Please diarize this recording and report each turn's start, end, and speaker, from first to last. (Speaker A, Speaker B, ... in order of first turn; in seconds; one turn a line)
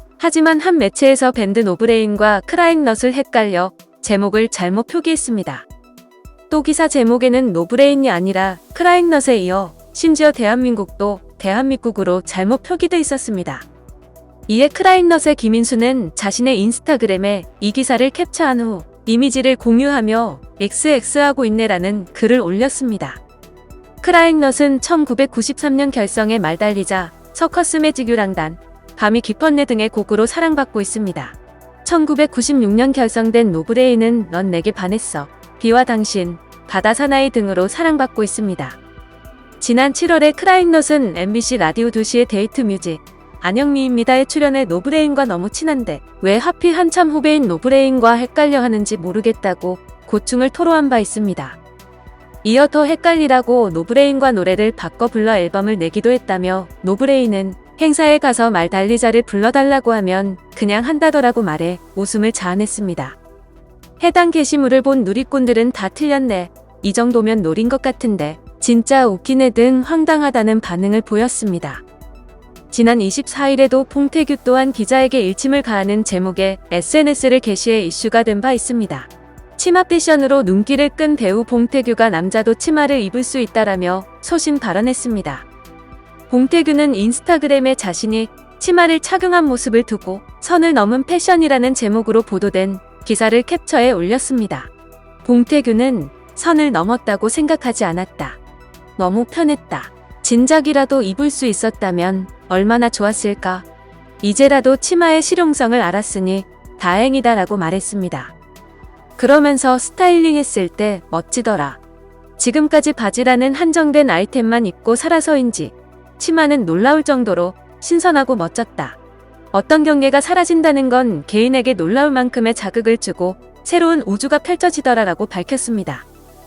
Speaker A: 0.2-5.7
Speaker A: 6.5-13.7
Speaker A: 14.5-23.2
Speaker A: 24.0-38.8
Speaker A: 39.6-51.6
Speaker A: 52.4-63.2
Speaker A: 64.0-71.8
Speaker A: 72.7-85.5
Speaker A: 86.3-94.7
Speaker A: 95.2-98.4
Speaker A: 99.0-103.6
Speaker A: 104.2-108.3
Speaker A: 109.2-111.8
Speaker A: 112.4-119.0
Speaker A: 119.5-126.0